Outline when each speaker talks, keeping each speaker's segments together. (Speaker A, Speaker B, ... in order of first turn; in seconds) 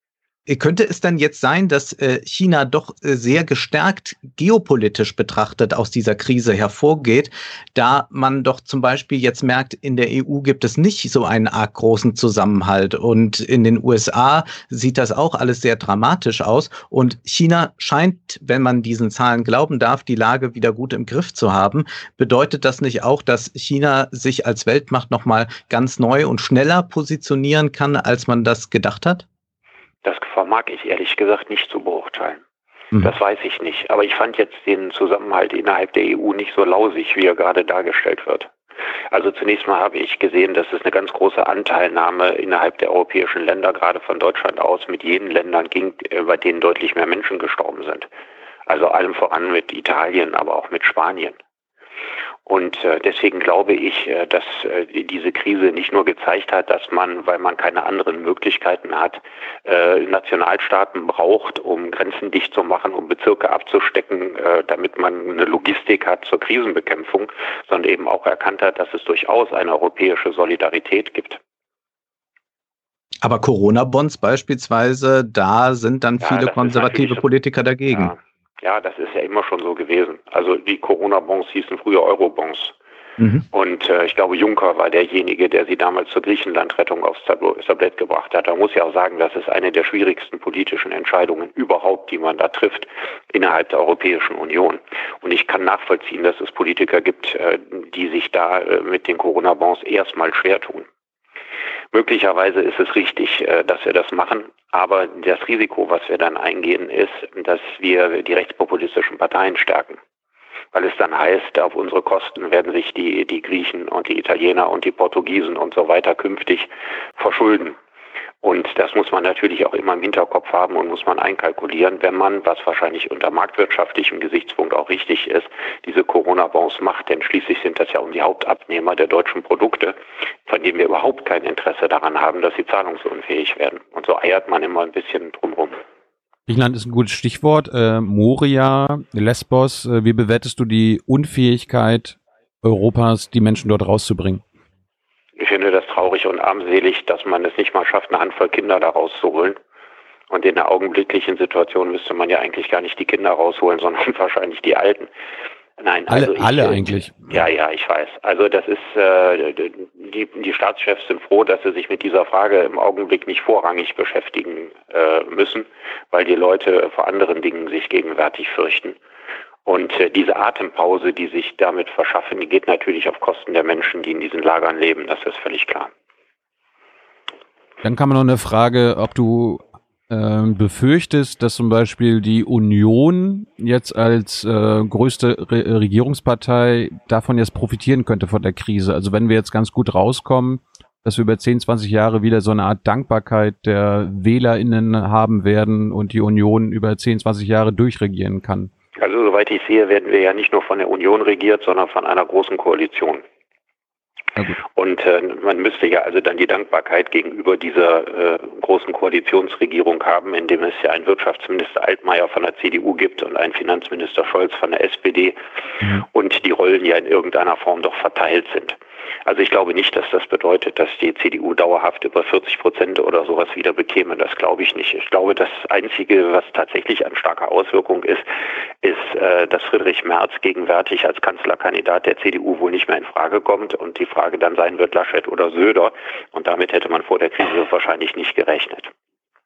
Speaker A: 0.5-29.2, 73.2-78.1
Speaker B: 30.0-32.4, 33.0-38.5, 39.1-48.1, 48.7-51.4, 52.5-71.4, 76.2-77.2, 77.9-82.8, 83.5-100.9, 101.9-110.0, 110.7-117.8, 118.4-135.8, 145.4-149.6, 150.3-155.1, 155.8-169.0, 169.7-175.9, 199.0-203.2, 204.7-228.3, 228.8-238.9
Speaker C: 136.5-144.4, 156.1-157.3, 177.8-198.7